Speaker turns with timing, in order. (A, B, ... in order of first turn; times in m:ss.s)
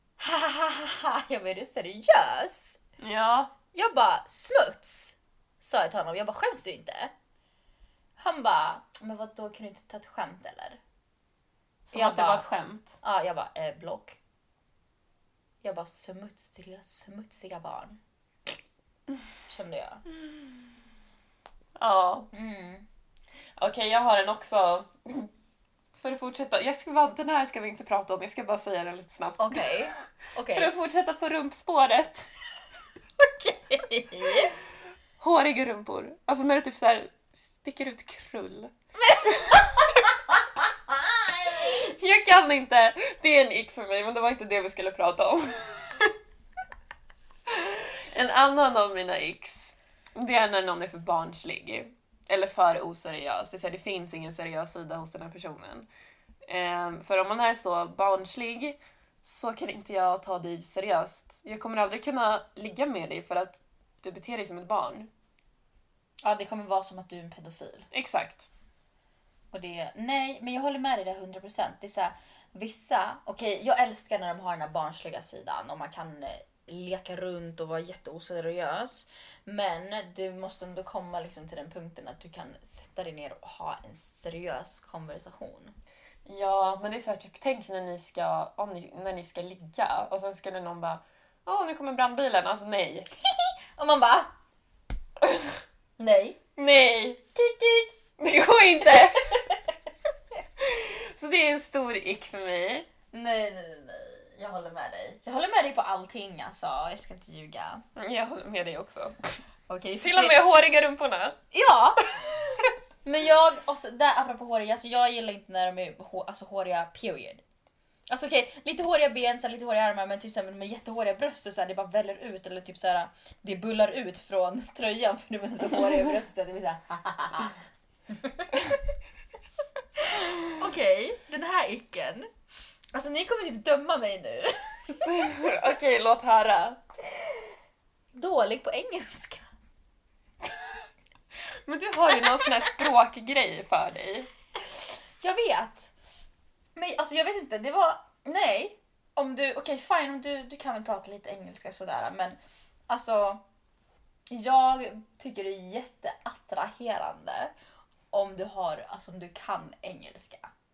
0:00.2-0:02.8 A
0:03.0-0:03.5 B
0:03.7-0:07.1 A
0:08.2-0:10.8 A
0:11.9-0:13.0 B
0:11.9-0:12.4 A
0:13.0-0:14.2 A
0:15.6-0:18.0 A
0:19.5-0:20.0 A
0:21.8-0:22.3 B
0:22.3-0:22.9 A
0:23.6-0:25.3 B
0:26.0-0:29.9 B
0:29.4-0:30.7 A
0:30.5-0:32.3 B
0:33.2-0:34.5 A
0:35.2-0:40.1 B
0:39.0-0:41.9 A
0:41.6-0:46.1 B
0:47.5-0:55.9 B
0:56.4-1:05.1 B
1:06.2-1:07.9 A
1:07.9-1:08.5 B
1:09.5-1:25.8 A
1:26.2-1:33.1 B
1:33.2-1:34.3 A
1:35.2-1:35.5 B
1:36.0-1:36.4 A
1:36.6-1:37.3 B
1:37.4-1:38.0 A
1:38.2-1:39.5 B
1:39.0-1:39.6 A
1:40.6-1:42.9 B
1:43.1-1:47.8 A
1:48.0-1:49.2 B
1:49.7-1:50.4 A
1:50.0-1:51.4 B
1:51.5-1:57.4 A
1:58.1-2:08.8 A
2:10.0-2:12.3 A
2:12.9-2:15.5 A
2:15.1-2:16.8 B
2:18.1-2:19.5 A
2:21.7-2:24.3 B
2:25.2-2:25.9 A
2:26.8-2:32.4 A
2:32.9-2:33.4 A
2:34.3-2:37.5 A
2:38.1-2:40.5 A